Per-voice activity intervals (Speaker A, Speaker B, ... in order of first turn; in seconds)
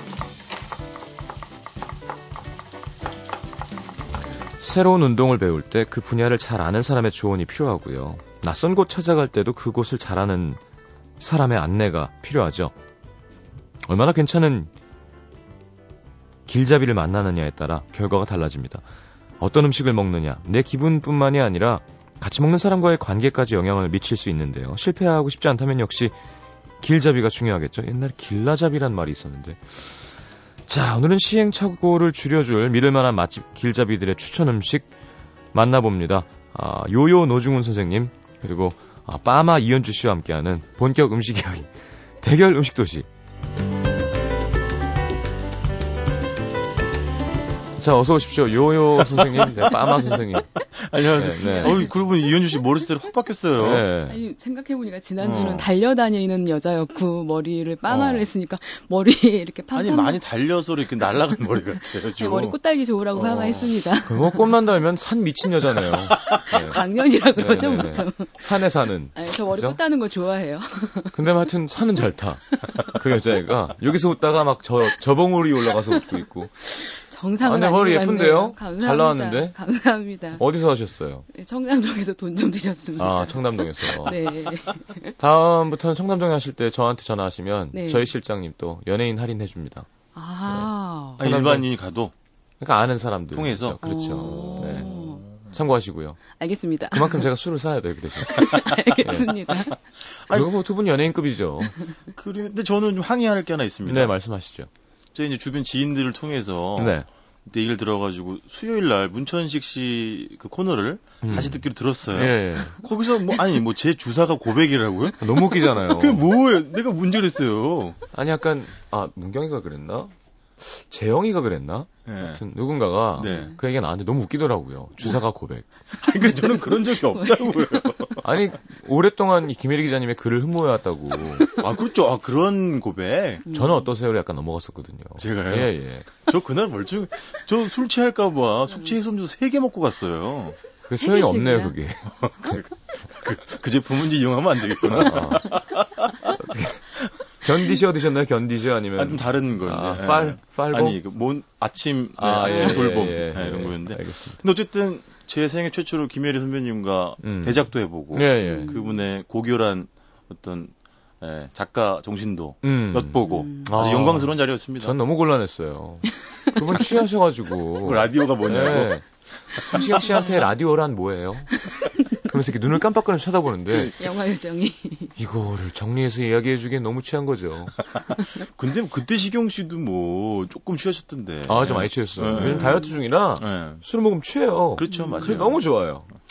Speaker A: 4.6-10.6, 11.2-12.7, 13.8-14.7, 16.5-18.8, 19.4-26.1, 26.8-30.1, 30.7-34.9, 35.5-43.1, 47.8-50.5, 51.0-51.9, 53.6-54.2, 63.2-69.8, 71.1-76.8, 77.4-79.5, 80.3-81.2, 83.0-84.5, 85.2-89.9, 90.5-91.7, 92.6-94.9, 95.5-96.2, 96.9-99.3, 100.3-101.8, 103.8-104.7, 106.8-107.1, 111.2-112.8, 115.2-116.3, 118.1-125.7, 128.2-131.5, 133.5-136.1, 140.9-142.6, 144.9-145.6, 146.2-151.0, 152.2-154.4, 157.2-157.6, 158.1-158.8, 162.6-173.9, 175.2-177.7, 181.4-186.1
Speaker B: 49.1-50.0, 50.8-53.9, 55.2-55.7, 59.7-62.5, 91.2-92.1, 93.3-95.5, 102.1-104.1, 105.1-118.0, 122.0-122.4, 123.2-123.5, 125.9-128.2, 131.5-133.4, 135.2-140.6, 142.2-146.3, 148.9-165.0, 167.8-169.0, 169.6-170.2, 178.3-183.8, 184.8-185.6
Speaker C: 51.4-51.9, 54.0-60.2, 62.2-64.5, 66.5-68.3, 69.1-71.2, 76.8-80.4, 81.3-85.1, 87.7-88.1, 90.1-91.2, 93.8-95.2, 96.4-97.2, 98.2-99.8, 123.2-123.5, 126.2-128.0, 141.0-141.8, 158.4-159.0, 163.2-163.7, 173.9-175.1, 184.9-185.3